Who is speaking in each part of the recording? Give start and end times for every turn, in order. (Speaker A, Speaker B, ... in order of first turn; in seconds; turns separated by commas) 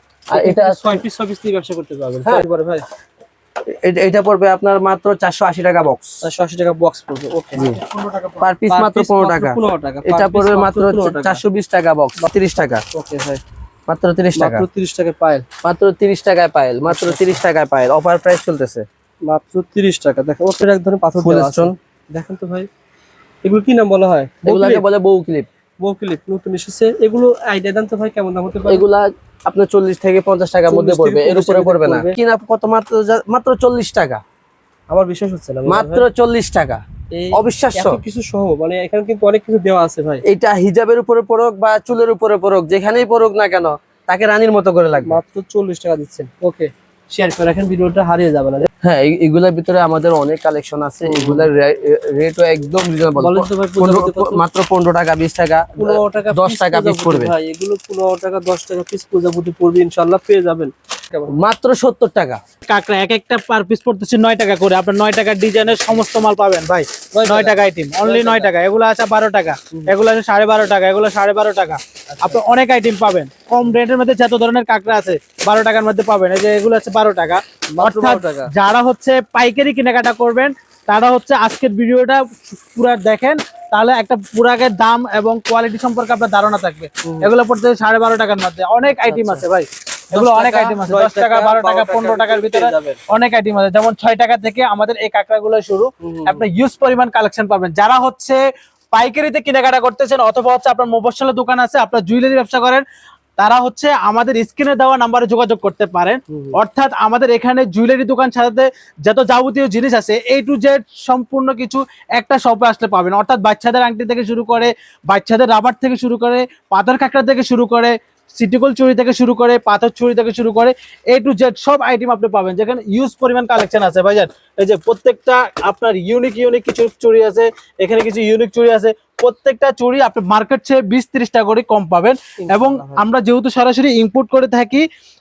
Speaker A: 0.3-1.0, Speaker B: 0.3-2.8, Speaker A: 3.7-6.2, Speaker B: 6.2-7.7, Speaker A: 7.5-7.8, Speaker C: 7.6-8.4, Speaker A: 8.4-12.8, Speaker B: 8.7-11.4, Speaker B: 12.9-13.4, Speaker A: 13.9-14.7, Speaker B: 14.3-15.4, Speaker A: 15.6-18.9, Speaker B: 16.9-17.4, Speaker B: 19.2-22.7, Speaker A: 21.2-21.7, Speaker B: 23.4-24.8, Speaker A: 24.4-25.5, Speaker B: 25.8-28.8, Speaker A: 28.6-34.2, Speaker B: 30.7-32.2, Speaker B: 34.9-36.1, Speaker A: 35.6-38.0, Speaker B: 37.1-40.2, Speaker A: 40.2-45.2, Speaker B: 45.0-48.7, Speaker A: 48.8-57.3, Speaker B: 51.0-51.5, Speaker B: 53.1-54.4, Speaker B: 55.8-61.3, Speaker A: 61.3-62.4, Speaker C: 62.7-102.8, Speaker B: 67.1-68.5, Speaker B: 72.1-72.4, Speaker B: 77.7-78.5, Speaker B: 87.0-87.3, Speaker B: 88.9-89.4, Speaker B: 90.1-93.0, Speaker B: 96.0-96.4, Speaker C: 103.4-134.8, Speaker B: 106.3-106.6, Speaker B: 132.4-133.0